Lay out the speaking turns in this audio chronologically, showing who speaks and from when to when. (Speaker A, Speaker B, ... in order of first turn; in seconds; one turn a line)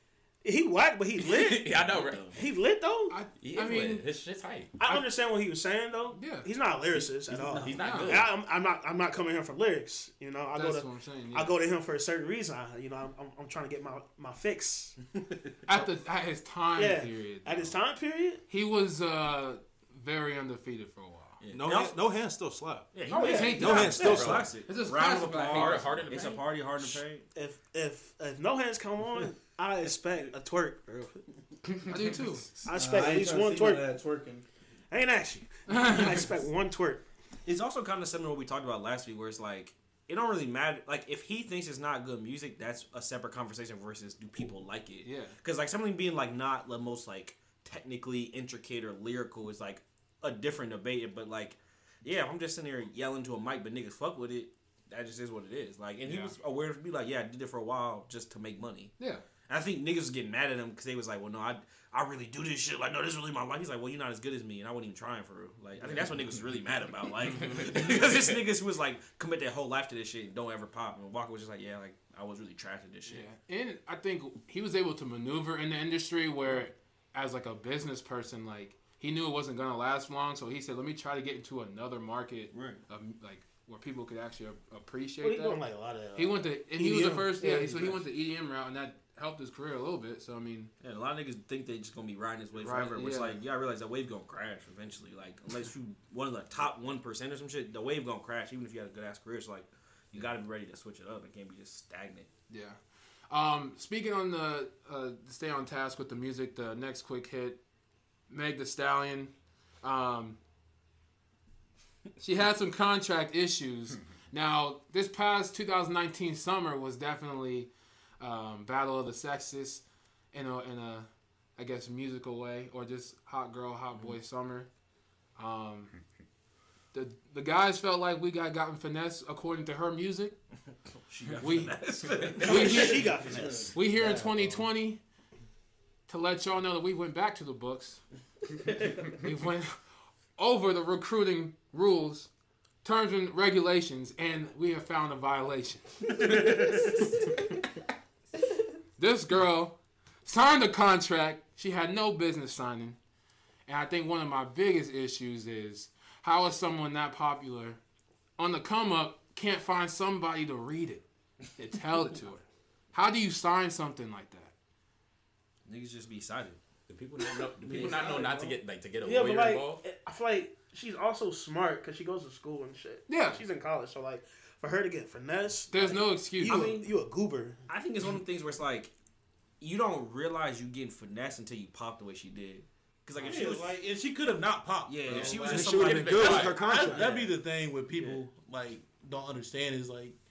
Speaker A: 0.4-3.2
Speaker B: 1.2-2.4
Speaker C: 1.8-2.4
Speaker D: 3.1-4.0
Speaker B: 3.4-4.8
Speaker A: 4.8-15.0
Speaker D: 6.1-6.5
Speaker B: 6.9-8.3
Speaker D: 7.8-8.2
Speaker D: 10.5-11.5
Speaker D: 15.7-17.7
Speaker A: 16.7-18.4
Speaker D: 18.5-21.4
Speaker C: 21.4-22.0
Speaker E: 21.5-24.6
Speaker C: 22.9-27.3
Speaker A: 23.1-24.4
Speaker B: 23.1-24.5
Speaker D: 23.2-26.0
Speaker B: 25.4-26.4
Speaker A: 27.3-31.2
Speaker D: 31.9-32.5
Speaker A: 32.6-33.9
Speaker F: 32.6-34.4
Speaker A: 34.9-37.0
Speaker D: 35.7-36.2
Speaker C: 37.5-58.9
Speaker D: 45.0-45.4
Speaker D: 56.0-56.3
Speaker D: 59.0-59.2
Speaker C: 59.5-73.2
Speaker B: 67.5-68.2
Speaker D: 73.1-85.6
Speaker C: 82.5-82.8
Speaker A: 85.2-88.0
Speaker D: 86.1-90.7
Speaker C: 90.8-102.3
Speaker D: 92.5-93.4
Speaker D: 102.5-102.8
Speaker D: 103.3-107.6
Speaker D: 108.3-110.4
Speaker D: 112.2-124.7
Speaker D: 125.3-125.9
Speaker D: 126.9-130.4
Speaker C: 131.1-133.2
Speaker B: 131.2-133.0
Speaker D: 131.4-131.8
Speaker D: 132.3-133.1
Speaker A: 132.4-134.0
Speaker D: 133.7-135.0
Speaker F: 134.0-134.5
Speaker D: 136.1-138.0
Speaker D: 139.0-139.8
Speaker D: 140.4-142.3
Speaker D: 142.8-146.5
Speaker D: 149.0-153.0
Speaker D: 153.7-157.8
Speaker D: 158.4-161.0
Speaker D: 161.5-164.5
Speaker C: 165.7-166.6
Speaker B: 166.9-169.8
Speaker A: 167.6-177.6
Speaker C: 167.7-168.0
Speaker D: 173.1-173.4
Speaker D: 175.7-176.6
Speaker C: 176.4-176.9
Speaker C: 177.7-178.9
Speaker C: 179.6-183.7
Speaker F: 183.2-190.2
Speaker C: 184.8-187.4
Speaker E: 185.1-187.1
Speaker B: 185.5-186.6